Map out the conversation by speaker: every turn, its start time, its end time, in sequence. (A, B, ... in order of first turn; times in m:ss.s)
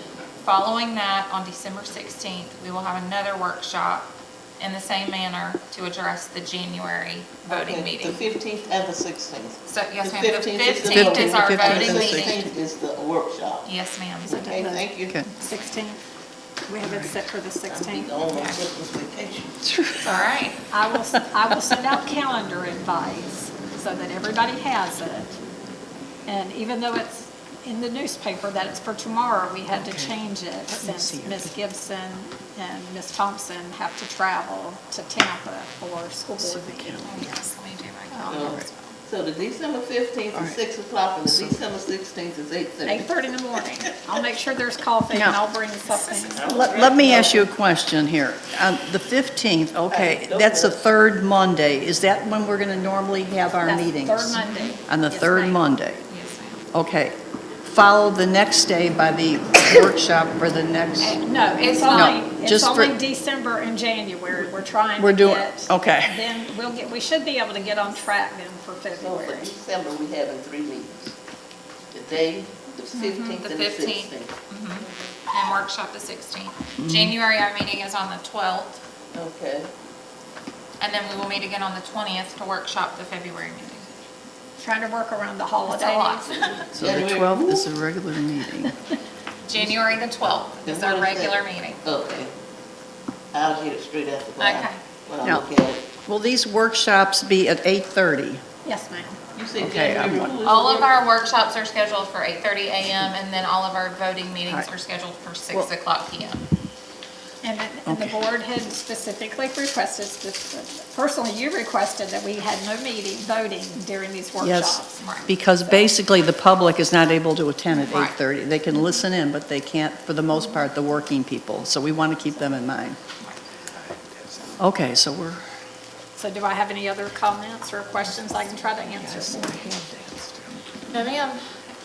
0:00.4-0:04.1 A
0:04.6-0:08.2 A
0:07.4-0:13.7 B
0:09.6-0:12.5 A
0:10.8-0:12.4 C
0:13.6-0:14.5 A
0:14.2-0:15.2 B
0:14.3-0:16.0 D
0:16.6-0:18.5 D
0:16.8-0:17.1 C
0:17.6-0:19.6 B
0:19.6-0:20.3 C
0:20.0-0:20.6 A
0:20.7-0:25.4 D
0:26.2-0:37.0 D
0:29.7-0:30.1 C
0:30.7-0:31.5 C
0:36.4-0:37.2 C
0:37.0-0:39.0 A
0:38.3-0:43.3 B
0:38.3-0:38.6 C
0:41.2-0:41.5 C
0:42.8-0:46.5 D
0:46.3-0:47.5 B
0:46.4-0:56.0 C
0:49.9-0:50.8 B
0:53.6-0:55.6 D
0:56.1-0:56.6 A
0:56.7-0:57.2 C
0:57.7-1:01.2 C
1:01.0-1:02.2 A
1:01.2-1:09.5 D
1:01.9-1:02.9 C
1:05.0-1:06.2 C
1:09.0-1:11.2 B
1:11.9-1:14.3 B
1:12.9-1:13.2 D
1:13.0-1:18.8 A
1:16.8-1:17.1 C
1:19.1-1:19.7 B
1:20.8-1:23.9 A
1:24.6-1:26.8 D
1:25.7-1:26.6 A
1:26.7-1:27.7 B
1:26.8-1:28.7 C
1:29.4-1:31.8 A
1:30.6-1:32.3 B
1:33.3-1:35.9 B
1:34.4-1:34.8 A
1:36.0-1:38.4 C
1:38.6-1:39.2 D
1:39.4-1:40.9 B
1:39.6-1:40.4 C
1:40.4-1:46.4 A
1:47.4-1:55.0 D
1:47.8-1:48.1 C
1:54.4-2:03.0 C
1:55.0-1:55.3 A
1:57.7-1:58.2 A
2:04.6-2:05.5 C
2:06.1-2:09.6 D
2:09.0-2:10.6 C
2:10.9-2:11.5 A